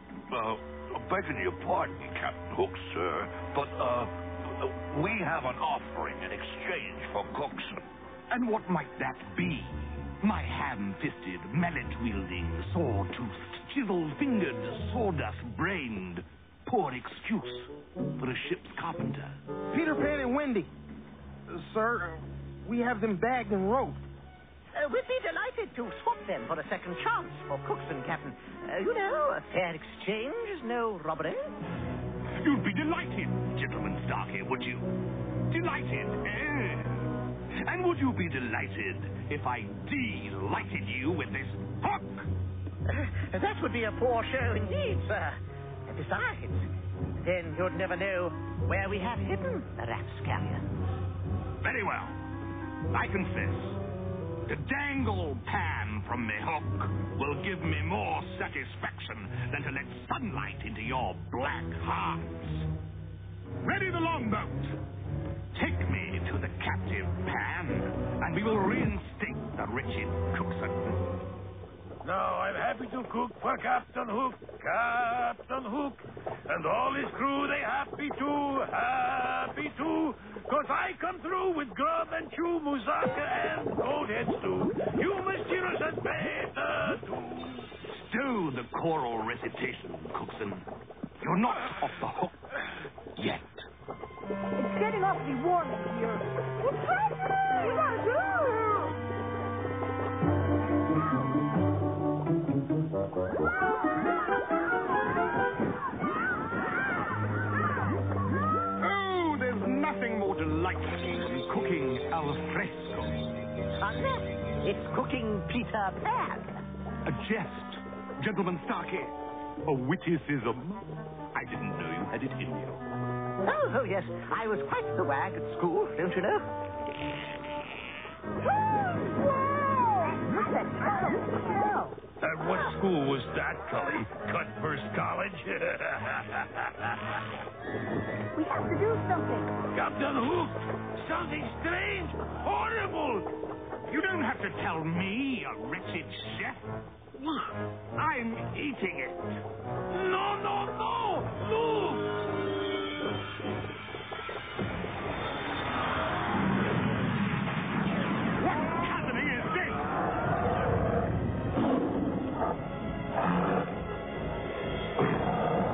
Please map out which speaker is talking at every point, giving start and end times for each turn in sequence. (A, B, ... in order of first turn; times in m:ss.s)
0:00.3-0:07.9 A
0:08.3-0:19.4 B
0:19.7-0:20.7 C
0:21.5-0:24.0 C
0:24.8-0:31.5 D
0:32.4-0:34.9 B
0:35.5-0:42.3 B
0:42.9-0:50.6 D
0:51.6-0:52.2 B
0:52.9-0:53.8 B
0:54.5-1:02.7 B
1:03.6-1:04.8 B
1:05.5-1:11.0 B
1:12.0-1:27.7 E
1:28.0-1:30.7 B
1:31.2-1:32.4 B
1:33.2-1:33.5 B
1:34.6-1:38.9 F
1:48.8-1:53.2 B
1:53.8-1:56.5 D
1:57.0-1:59.1 B
1:59.6-2:02.8 B
2:03.4-2:06.4 D
2:09.5-2:12.0 F
2:12.2-2:17.0 E
2:18.4-2:19.4 F
2:19.7-2:23.3 E
2:23.9-2:26.7 B
2:27.2-2:29.4 B
2:29.9-2:32.1 E
2:38.4-2:39.8 B